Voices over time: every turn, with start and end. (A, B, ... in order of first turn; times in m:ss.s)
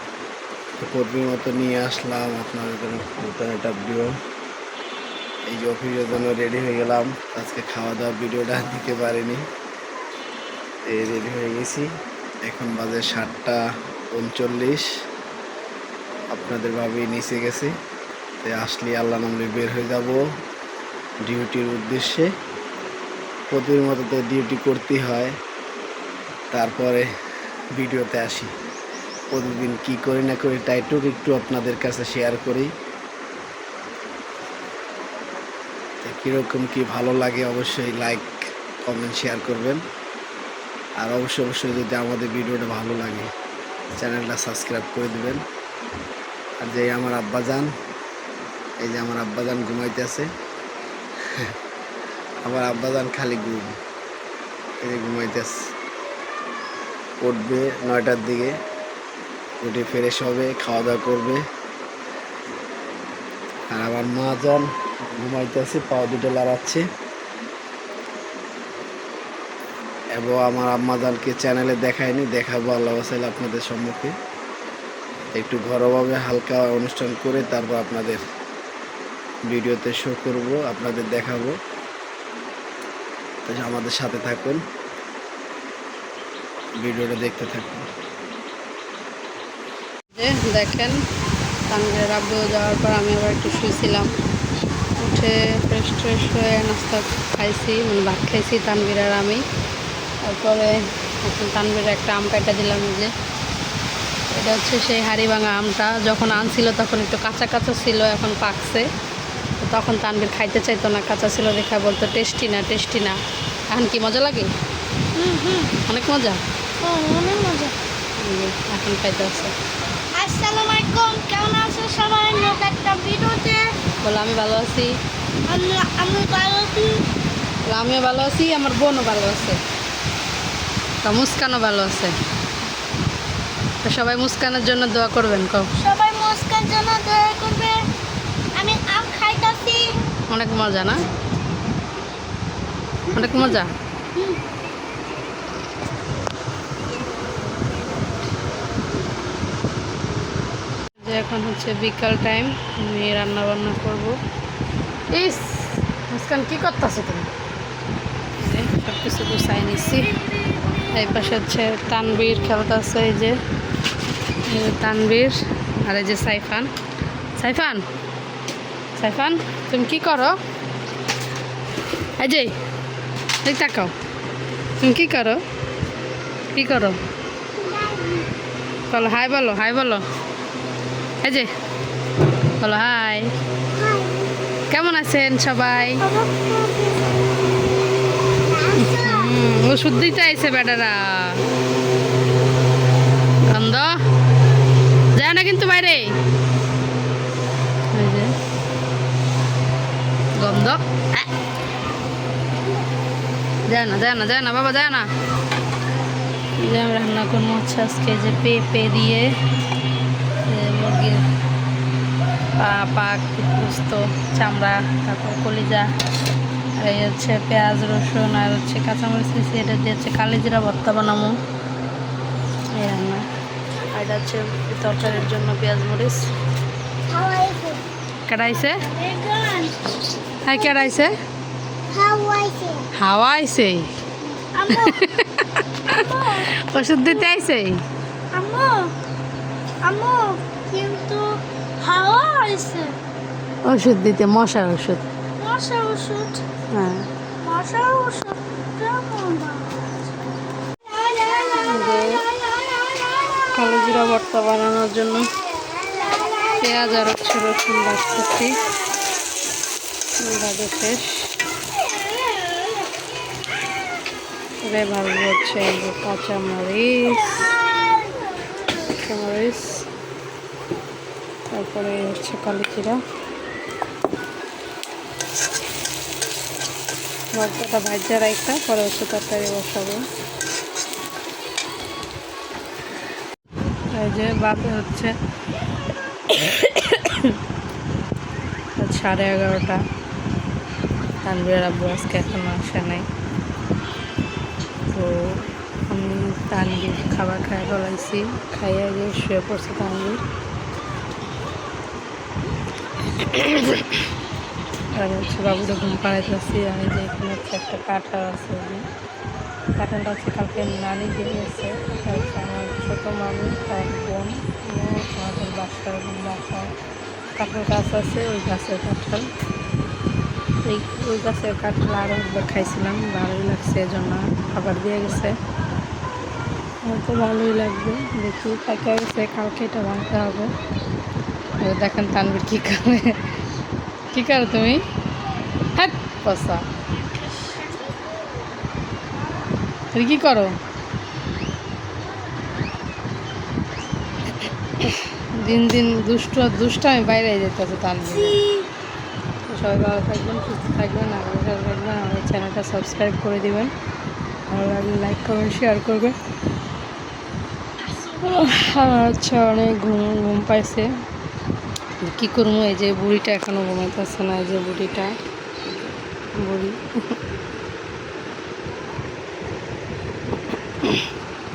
0:00.8-0:04.1 A
0:05.5-0:09.4 A
0:10.9-0:11.9 A
0:12.4-0:13.6 A
0:14.1-0:14.9 A
0:16.3-0:17.7 A
0:18.4-0:20.2 A
0:21.2-0:22.3 A
0:23.5-0:25.3 A
0:26.5-0:27.1 A
0:27.7-0:28.5 A
0:29.3-0:32.7 A
0:36.0-0:38.3 A
0:38.8-0:39.8 A
0:41.0-0:43.3 A
0:44.0-0:45.4 A
0:46.6-0:47.7 A
0:48.8-0:50.3 A
0:52.4-0:53.7 A
0:54.8-0:55.5 A
0:57.2-0:58.6 A
0:59.6-1:01.4 A
1:03.7-1:06.8 A
1:10.2-1:14.1 A
1:15.4-1:18.2 A
1:19.5-1:21.6 A
1:23.4-1:24.6 A
1:26.8-1:27.8 A
1:30.1-1:31.0 B
1:31.7-1:34.1 B
1:35.0-1:39.4 B
1:40.2-1:43.1 B
1:44.3-1:48.9 B
1:49.6-1:53.2 B
1:53.7-1:54.5 B
1:55.1-1:55.8 C
1:55.8-1:56.4 B
1:56.8-1:57.8 C
1:58.2-1:59.5 B
2:00.1-2:03.7 C
2:04.0-2:04.9 B
2:05.5-2:07.0 C
2:07.7-2:09.6 B
2:11.0-2:12.2 B
2:13.8-2:15.7 B
2:15.8-2:17.8 C
2:18.5-2:19.9 C
2:20.3-2:21.0 B
2:23.1-2:23.6 C
2:23.1-2:23.7 B
2:31.0-2:34.2 B
2:35.1-2:37.3 B
2:38.4-2:40.2 B
2:40.9-2:43.4 B
2:44.5-2:46.7 B
2:47.4-2:47.8 B
2:49.0-2:50.3 B
2:52.2-2:52.5 B
2:53.4-2:53.9 B
2:54.8-2:55.4 B
2:56.5-2:57.0 B
2:57.6-2:58.3 C
2:58.9-3:00.0 B
3:01.2-3:01.5 B
3:02.6-3:03.3 B
3:03.7-3:04.2 C
3:04.7-3:06.1 B
3:06.0-3:07.0 C
3:08.7-3:11.4 B
3:13.5-3:13.9 B
3:15.1-3:16.1 B
3:17.9-3:18.3 B
3:20.4-3:21.2 B
3:23.7-3:25.1 B
3:26.6-3:29.2 B
3:30.5-3:31.2 B
3:32.6-3:35.9 B
3:36.8-3:41.3 B
3:42.8-3:43.2 B
3:43.9-3:46.3 B
3:47.1-3:47.8 C
3:48.3-3:48.8 B
3:48.6-3:49.8 C
3:50.4-3:51.2 B
3:50.5-3:50.9 C
3:51.9-3:52.9 C
3:53.0-3:53.9 B
3:54.5-3:55.1 C
3:54.7-3:56.0 B
3:55.9-3:56.5 C
3:56.6-3:57.8 B
3:57.1-3:57.3 C
3:58.3-3:58.9 C
3:59.8-4:03.0 C
4:03.6-4:05.0 B
4:05.4-4:06.4 C
4:06.7-4:07.1 B
4:07.4-4:09.9 C
4:10.9-4:11.5 C
4:11.5-4:12.2 B
4:13.5-4:15.2 B
4:16.6-4:18.5 B
4:20.2-4:21.3 B
4:24.6-4:27.5 B
4:28.9-4:29.9 B
4:31.5-4:33.0 B
4:37.4-4:40.0 B
4:43.9-4:45.1 B
4:46.3-4:47.4 B
4:48.8-4:49.8 B
4:51.2-4:53.1 B
4:54.9-5:00.2 B
5:03.2-5:04.1 B
5:04.9-5:08.8 B
5:09.8-5:16.7 B
5:17.4-5:19.3 B
5:20.7-5:25.4 B
5:26.8-5:30.5 B
5:31.6-5:33.2 B
5:34.1-5:34.8 B
5:35.8-5:36.6 B
5:39.9-5:40.5 B
5:44.8-5:48.4 B
5:48.1-5:48.7 C
5:49.5-5:53.7 B
5:54.5-5:56.2 B
5:58.1-6:00.9 B
6:02.0-6:05.1 B
6:06.4-6:07.1 B
6:10.8-6:11.1 B